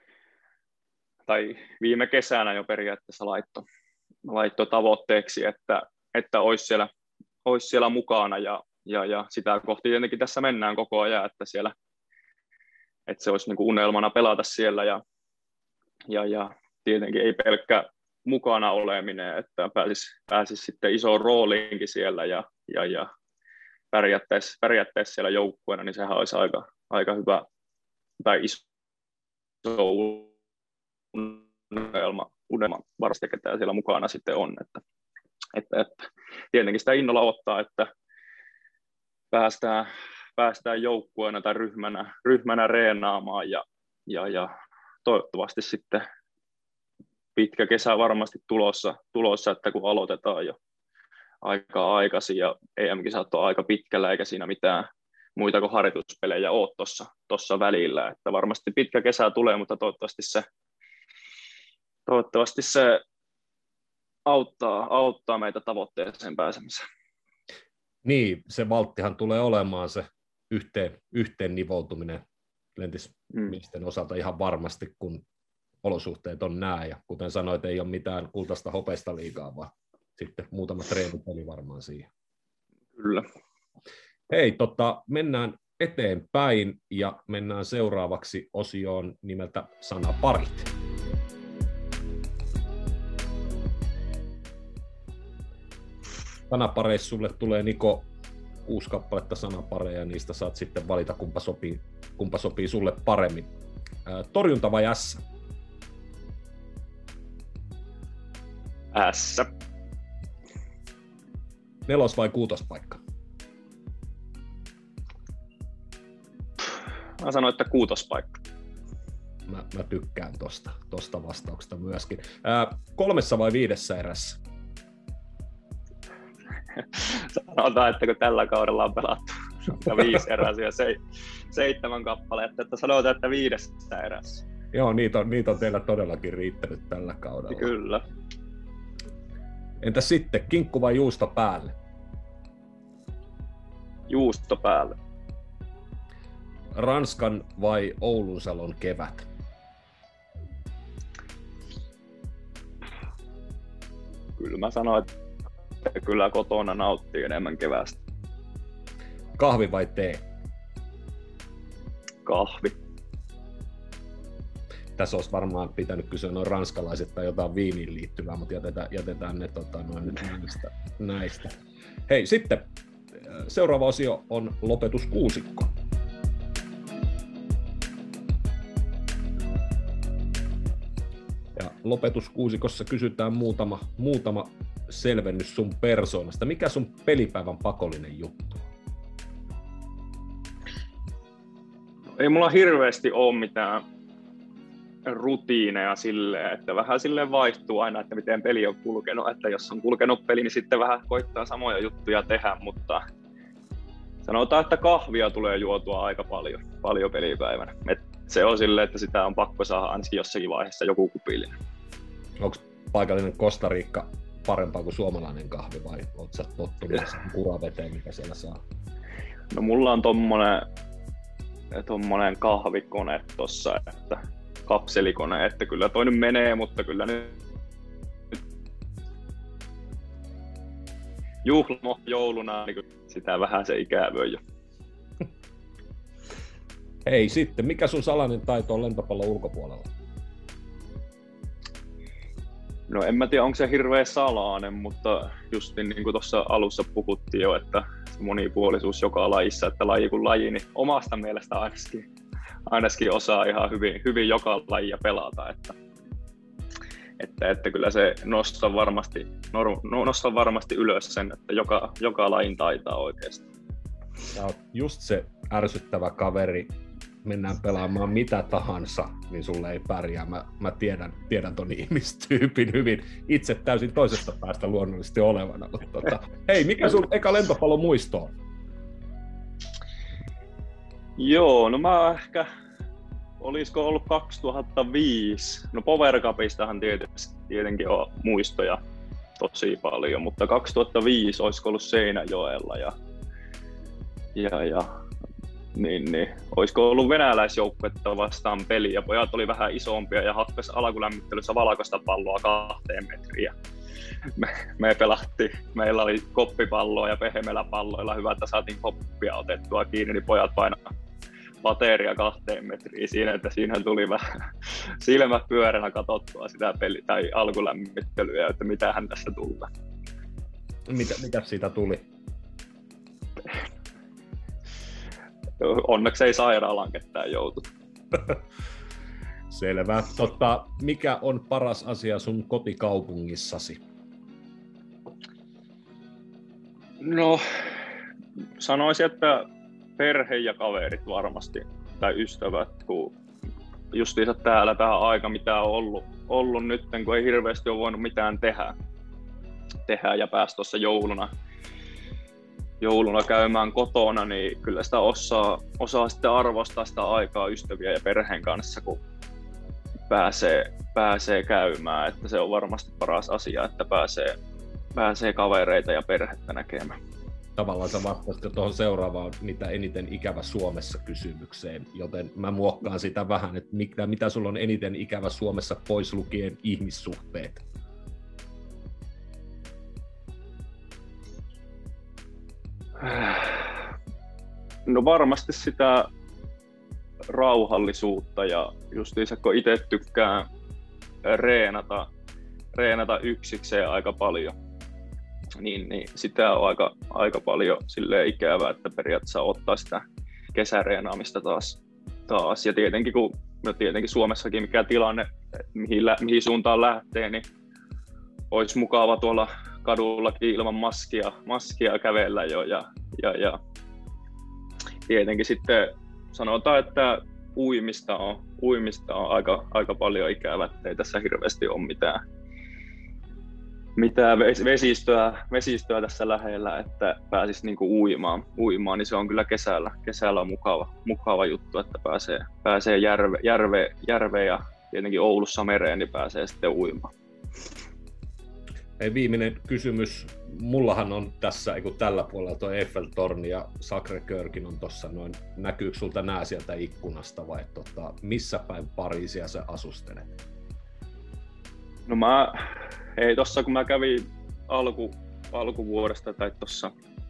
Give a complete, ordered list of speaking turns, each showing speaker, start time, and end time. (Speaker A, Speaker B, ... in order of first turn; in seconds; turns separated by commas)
Speaker A: 1.3-3.6, Speaker A: 4.3-6.9, Speaker A: 7.5-11.7, Speaker A: 13.1-15.0, Speaker A: 16.1-23.1, Speaker A: 23.9-27.4, Speaker A: 28.2-28.6, Speaker A: 29.6-30.3, Speaker A: 31.1-34.8, Speaker A: 35.5-37.9, Speaker A: 39.3-44.5, Speaker A: 45.0-46.1, Speaker A: 47.4-50.6, Speaker A: 51.4-60.5, Speaker A: 62.1-63.0, Speaker A: 64.3-66.8, Speaker B: 68.0-72.2, Speaker B: 72.8-75.2, Speaker B: 75.8-82.1, Speaker A: 83.0-83.3, Speaker B: 84.3-90.7, Speaker B: 96.5-98.1, Speaker B: 98.7-103.5, Speaker B: 104.0-105.2, Speaker A: 108.9-109.5, Speaker B: 111.9-113.0, Speaker A: 117.2-118.4, Speaker B: 119.5-124.4, Speaker A: 126.8-131.0, Speaker A: 131.5-134.4, Speaker B: 134.7-137.8, Speaker A: 137.5-138.0, Speaker B: 139.8-141.8, Speaker A: 144.1-145.0, Speaker B: 146.8-149.3, Speaker A: 154.4-155.1, Speaker A: 155.8-158.0, Speaker B: 159.4-160.2, Speaker A: 162.2-162.8, Speaker B: 165.0-171.6, Speaker B: 172.1-175.7, Speaker B: 181.6-188.7, Speaker A: 192.2-193.8, Speaker A: 195.1-203.0, Speaker A: 204.2-211.6, Speaker B: 212.4-218.6, Speaker A: 219.5-220.7, Speaker A: 221.7-227.4, Speaker A: 231.4-234.4, Speaker B: 237.1-239.9, Speaker A: 242.9-252.1, Speaker A: 252.7-255.8, Speaker A: 257.2-263.5, Speaker B: 264.3-266.7, Speaker B: 267.2-278.3, Speaker A: 281.2-282.5, Speaker A: 283.4-288.8, Speaker A: 289.4-292.9, Speaker A: 294.4-294.9, Speaker A: 295.8-303.6, Speaker A: 304.4-310.8, Speaker A: 311.6-319.7, Speaker B: 320.9-322.0, Speaker A: 325.6-327.6, Speaker B: 329.5-333.8, Speaker A: 337.0-337.7, Speaker A: 338.6-339.5, Speaker A: 340.0-343.2, Speaker A: 343.9-348.7, Speaker A: 349.9-351.3, Speaker A: 352.8-359.0, Speaker A: 360.1-364.4, Speaker A: 365.0-367.0, Speaker B: 367.6-377.6, Speaker A: 383.0-383.8, Speaker A: 384.9-386.1, Speaker A: 387.3-390.5, Speaker A: 391.2-392.1, Speaker A: 392.8-394.6, Speaker A: 395.6-400.0, Speaker A: 400.6-407.5, Speaker A: 408.5-413.6, Speaker A: 415.1-422.2, Speaker A: 424.0-437.1, Speaker B: 439.0-450.4, Speaker A: 452.1-452.6, Speaker A: 453.2-456.9